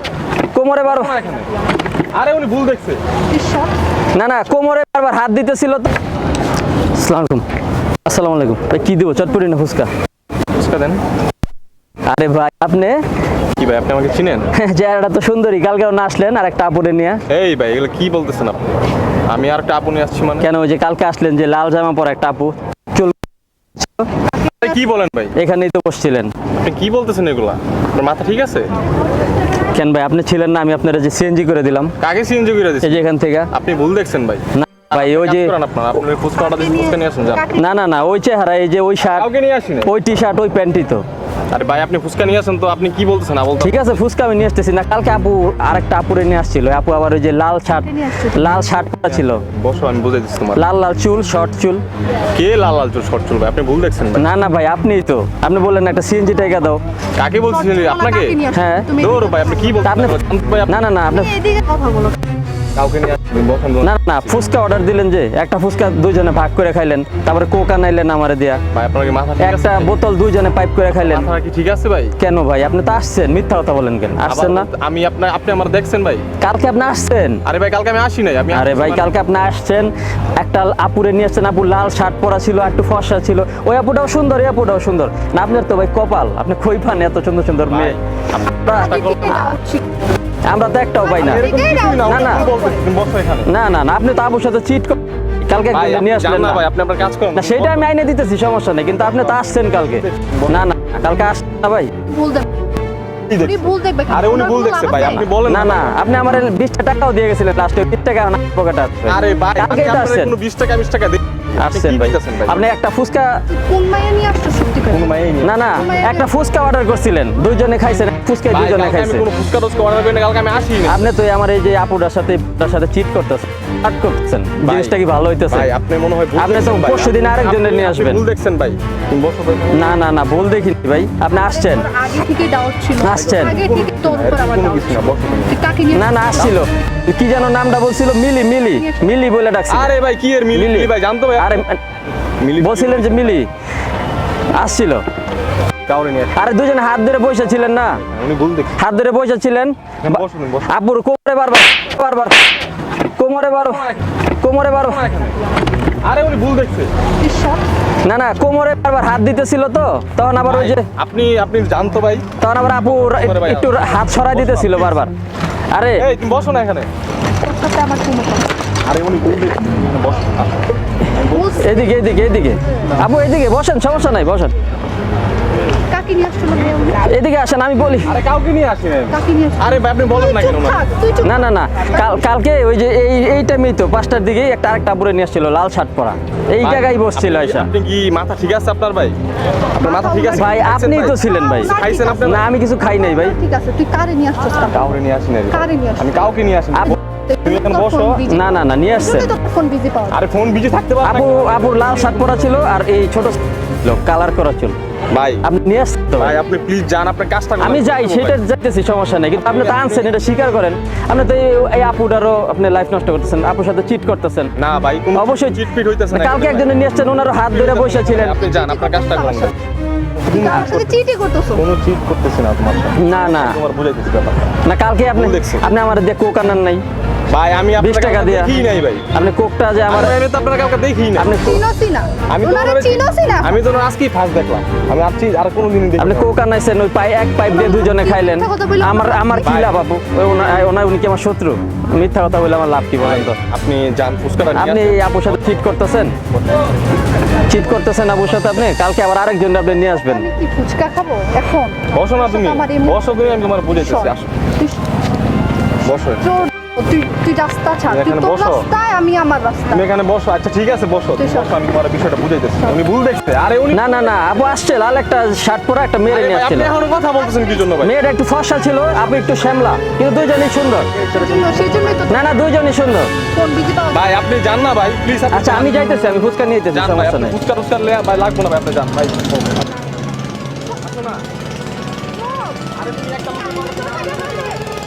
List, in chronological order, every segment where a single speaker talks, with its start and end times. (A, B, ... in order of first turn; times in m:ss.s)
0:00.5-0:01.1 A
0:00.8-0:01.5 B
0:02.1-0:03.0 B
0:03.3-0:03.7 C
0:04.1-0:05.9 A
0:06.9-0:07.4 A
0:08.0-0:09.9 A
0:10.6-0:11.0 B
0:12.1-0:13.0 A
0:13.6-0:14.5 B
0:14.5-0:17.2 A
0:17.3-0:18.6 B
0:19.3-0:20.5 B
0:20.4-0:23.2 A
0:23.8-0:24.1 A
0:24.5-0:25.3 B
0:25.3-0:26.3 A
0:26.6-0:28.7 B
0:29.7-0:31.9 A
0:32.0-0:33.0 B
0:32.8-0:33.5 A
0:33.5-0:37.5 B
0:34.6-0:35.5 A
0:36.4-0:37.7 C
0:37.5-0:39.3 A
0:39.0-0:39.9 B
0:39.8-0:41.0 A
0:41.5-0:44.0 B
0:43.6-0:49.4 A
0:47.9-0:48.4 C
0:49.1-0:50.6 B
0:50.5-0:51.8 A
0:52.3-0:54.3 B
0:54.2-0:56.8 A
0:57.2-0:58.4 B
0:57.4-0:59.7 C
0:58.5-0:58.9 A
0:59.0-1:00.8 B
0:59.8-1:01.3 A
1:01.1-1:02.2 C
1:02.7-1:04.3 B
1:03.8-1:08.6 A
1:08.7-1:10.0 B
1:09.4-1:11.3 A
1:10.9-1:12.1 B
1:12.2-1:14.7 A
1:14.2-1:16.2 B
1:16.4-1:17.4 A
1:17.4-1:19.1 B
1:18.5-1:29.5 A
1:27.6-1:29.3 B
1:28.6-1:29.9 C
1:30.4-1:31.5 A
1:31.0-1:32.8 C
1:31.1-1:33.5 B
1:32.0-1:32.4 A
1:33.4-1:36.6 A
1:35.7-1:37.9 B
1:37.3-1:41.9 A
1:39.0-1:40.6 B
1:42.1-1:42.5 C
1:43.3-1:46.0 B
1:43.4-1:45.3 C
1:45.4-1:50.3 A
1:49.1-1:52.7 B
1:51.6-1:53.4 A
1:53.5-1:55.1 C
1:54.9-1:55.6 B
1:55.4-1:59.3 A
1:55.6-1:56.4 C
1:58.5-2:01.1 B
2:00.8-2:05.7 A
2:04.6-2:09.9 B
2:06.4-2:08.2 A
2:09.7-2:11.9 A
2:11.3-2:16.6 C
2:13.0-2:13.5 A
2:13.1-2:15.6 B
2:15.9-2:19.9 A
2:19.7-2:21.6 B
2:20.5-2:21.8 A
2:22.4-2:23.4 B
2:22.6-2:23.5 A
2:24.5-2:25.0 A
2:25.8-2:26.4 B
2:26.3-2:28.0 A
2:28.0-2:28.8 B
2:28.8-2:32.4 A
2:30.0-2:30.7 B
2:33.2-2:35.0 A
2:33.6-2:34.0 B
2:34.8-2:35.4 B
2:36.0-2:36.9 B
2:37.2-2:37.6 C
2:38.0-2:40.8 A
2:40.4-2:45.0 B
2:42.4-2:45.1 A
2:45.7-2:46.0 A
2:46.0-2:46.9 B
2:47.4-2:48.5 C
2:48.8-2:50.6 B
2:51.1-2:51.7 B
2:51.3-2:51.9 C
2:51.6-2:54.5 A
2:55.9-2:57.2 C
2:57.0-2:58.2 A
2:58.0-3:00.8 B
2:59.1-3:02.1 C
3:01.2-3:07.7 A
3:06.6-3:09.2 B
3:09.7-3:12.5 B
3:09.8-3:14.8 C
3:10.3-3:13.3 A
3:14.7-3:18.2 B
3:15.5-3:16.2 C
3:16.9-3:20.2 C
3:18.2-3:19.3 A
3:20.1-3:22.1 B
3:21.0-3:24.8 A
3:25.1-3:25.4 B
3:25.4-3:26.4 A
3:26.2-3:28.4 B
3:27.6-3:34.5 A
3:29.4-3:30.1 B
3:34.6-3:36.8 B
3:35.1-3:38.4 A
3:37.4-3:39.5 B
3:38.2-3:39.5 C
3:40.2-3:41.0 B
3:40.2-3:41.6 C
3:41.5-3:44.5 B
3:43.0-3:43.6 A
3:44.6-3:46.8 A
3:45.1-3:45.6 B
3:47.3-3:49.1 B
3:47.8-3:48.5 A
3:49.1-3:50.2 A
3:49.9-3:51.4 B
3:51.2-3:51.6 A
3:51.2-3:53.6 C
3:52.3-3:56.3 B
3:56.0-4:03.4 A
3:57.4-3:59.7 C
3:59.4-3:59.7 B
4:03.0-4:05.5 B
4:04.5-4:06.1 A
4:07.4-4:10.2 A
4:10.0-4:13.0 C
4:11.9-4:14.3 B
4:13.7-4:14.8 C
4:15.8-4:16.4 B
4:16.2-4:19.8 C
4:17.9-4:18.7 B
4:19.7-4:24.1 B
4:21.2-4:21.5 C
4:23.7-4:26.7 A
4:26.1-4:27.9 B
4:27.8-4:30.9 A
4:30.9-4:31.9 B
4:30.9-4:32.4 C
4:32.1-4:33.1 A
4:33.3-4:34.0 C
4:33.9-4:35.7 B
4:35.3-4:37.4 A
4:36.7-4:39.6 B
4:40.7-4:41.2 B
4:42.1-4:42.7 C
4:42.7-4:44.6 B
4:43.3-4:44.6 C